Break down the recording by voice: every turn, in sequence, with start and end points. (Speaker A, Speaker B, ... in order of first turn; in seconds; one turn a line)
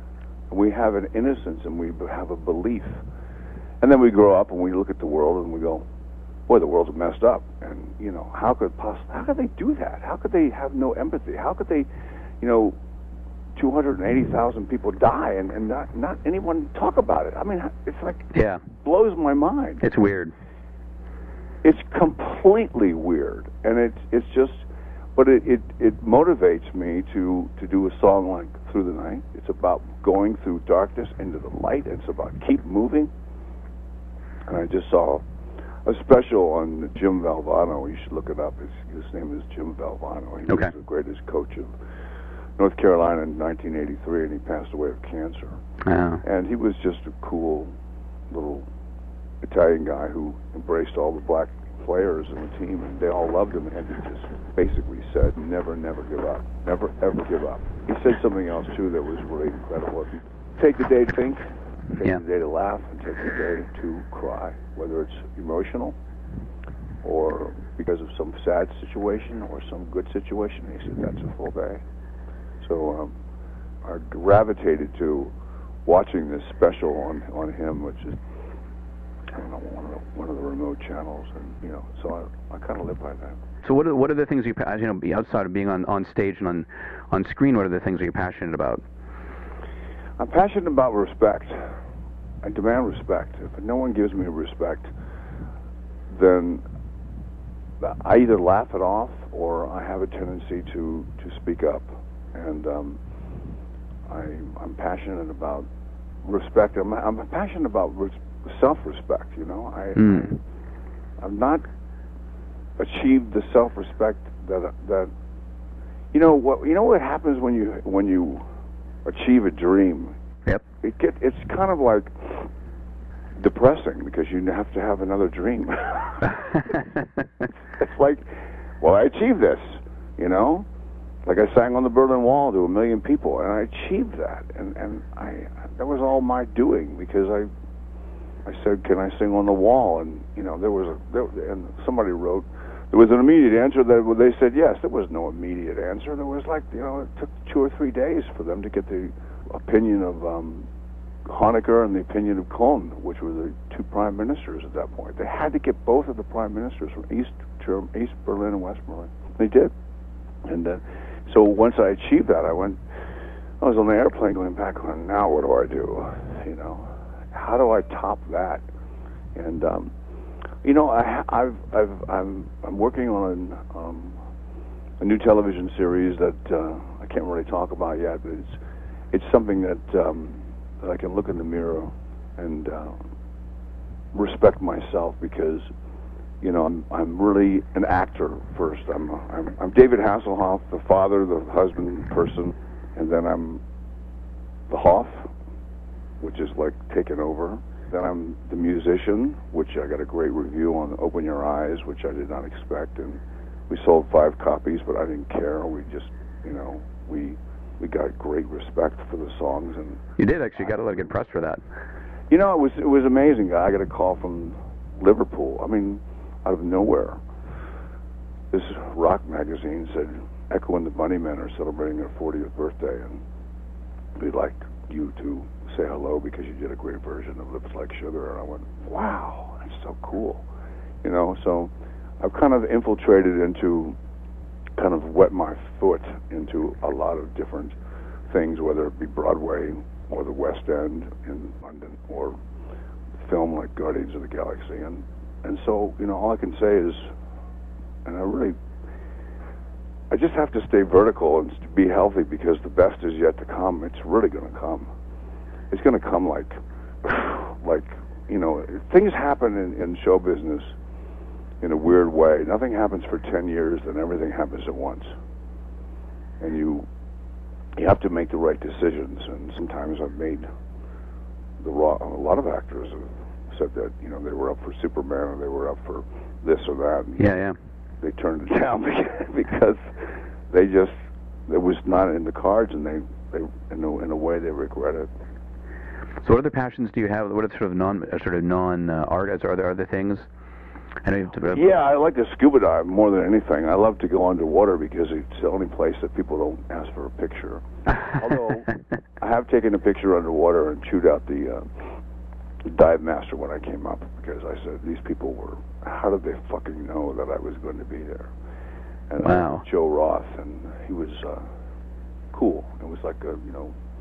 Speaker A: 0.5-3.0
Speaker A: 3.8-5.8
Speaker A: 6.5-11.9
Speaker A: 12.4-12.8
Speaker A: 13.6-18.2
Speaker B: 18.3-18.6
Speaker A: 18.8-19.8
Speaker B: 19.8-20.3
Speaker A: 21.6-24.6
Speaker A: 25.2-33.1
Speaker A: 34.5-35.2
Speaker A: 35.9-41.7
Speaker A: 42.6-45.6
Speaker B: 45.8-46.2
Speaker A: 46.2-47.7
Speaker A: 48.3-48.7
Speaker A: 49.4-61.4
Speaker A: 62.0-66.0
Speaker A: 67.0-71.8
Speaker A: 72.6-73.2
Speaker A: 73.8-75.3
Speaker A: 75.8-78.2
Speaker A: 79.3-83.4
Speaker B: 83.6-88.8
Speaker A: 90.2-91.7
Speaker A: 92.4-94.9
Speaker A: 96.1-96.6
Speaker A: 97.8-103.0
Speaker A: 104.1-105.7
Speaker A: 106.2-110.4
Speaker B: 110.0-110.3
Speaker A: 111.2-111.7
Speaker A: 112.8-115.1
Speaker A: 116.1-118.5
Speaker A: 119.0-120.2
Speaker A: 120.8-122.5
Speaker A: 123.4-126.8
Speaker A: 127.8-128.3
Speaker A: 128.8-130.7
Speaker A: 131.2-137.5
Speaker A: 138.5-150.7
Speaker A: 151.3-159.7
Speaker A: 160.4-162.8
Speaker A: 163.6-168.7
Speaker A: 169.3-169.9
Speaker A: 170.6-174.2
Speaker A: 175.0-178.6
Speaker A: 179.1-183.0
Speaker A: 184.1-185.7
Speaker A: 186.4-193.6
Speaker A: 194.7-195.3
Speaker A: 196.2-210.0
Speaker B: 210.2-211.6
Speaker A: 212.3-217.2
Speaker A: 218.5-223.2
Speaker A: 224.2-230.4
Speaker A: 231.0-234.0
Speaker A: 234.8-237.8
Speaker A: 238.3-242.4
Speaker A: 243.2-247.1
Speaker A: 248.1-248.6
Speaker A: 250.1-254.9
Speaker A: 255.7-260.7
Speaker A: 261.6-265.1
Speaker A: 266.4-266.9
Speaker A: 267.8-270.5
Speaker A: 271.6-277.3
Speaker B: 277.2-277.6
Speaker A: 278.0-279.8
Speaker A: 280.5-280.9
Speaker A: 281.5-285.1
Speaker B: 286.2-290.3
Speaker B: 291.0-291.8
Speaker A: 291.5-301.9
Speaker A: 302.6-308.3
Speaker A: 309.1-311.5
Speaker B: 309.2-309.6
Speaker A: 312.3-313.8